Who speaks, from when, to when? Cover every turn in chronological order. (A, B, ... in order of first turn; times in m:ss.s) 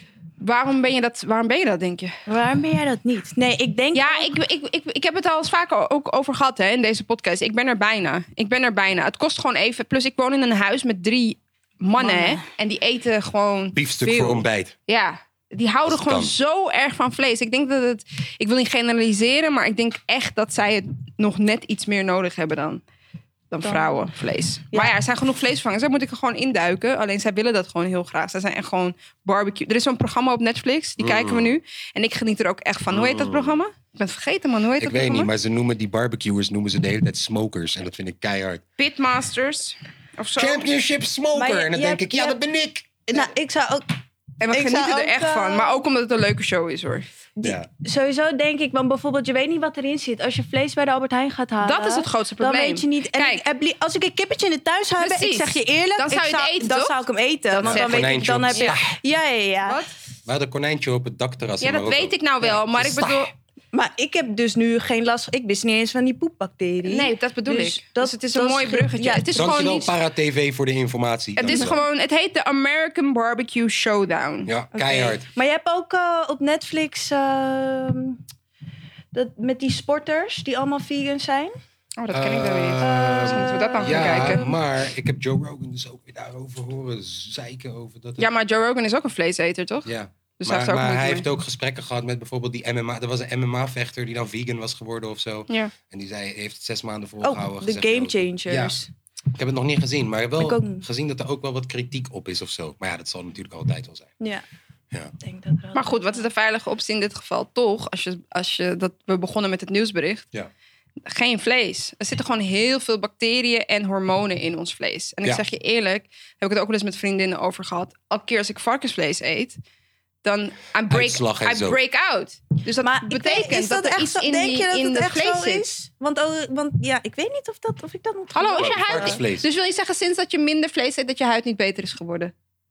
0:00.4-0:02.1 A
0:02.3-0:04.3 B
0:03.9-0:22.8 A
0:12.0-0:12.4 B
0:13.7-0:14.7 C
0:15.8-0:16.3 C
0:23.5-0:35.3 A
0:23.6-0:24.0 B
0:31.0-0:31.6 C
0:32.9-0:33.6 C
0:34.8-0:38.6 C
0:38.8-0:40.7 A
0:40.4-0:43.0 C
0:41.3-0:42.4 B
0:43.1-0:43.8 B
0:44.4-0:47.0 A
0:44.5-0:45.8 B
0:47.4-0:59.8 B
0:47.4-0:47.7 C
0:51.6-0:53.4 A
0:55.0-0:58.8 A
0:57.6-0:58.9 C
1:00.3-1:03.3 C
1:01.6-1:03.3 A
1:03.7-1:09.5 B
1:06.8-1:09.9 A
1:09.3-1:11.8 C
1:11.4-1:14.5 A
1:11.4-1:11.8 B
1:14.4-1:15.3 C
1:14.7-1:18.2 B
1:19.1-1:21.5 B
1:22.0-1:24.5 A
1:22.1-1:28.3 C
1:23.2-1:24.5 B
1:28.2-1:29.9 A
1:29.8-1:38.8 C
1:30.4-1:31.2 A
1:35.5-1:35.7 A
1:37.2-1:38.9 B
1:39.3-1:44.1 C
1:40.4-1:40.8 B
1:44.2-1:44.4 B
1:45.2-1:46.3 B
1:45.7-1:50.3 A
1:51.0-1:59.6 A
2:00.2-2:05.7 A
2:00.9-2:01.8 C
2:02.8-2:09.2 B
2:08.3-2:12.3 A
2:08.6-2:09.5 C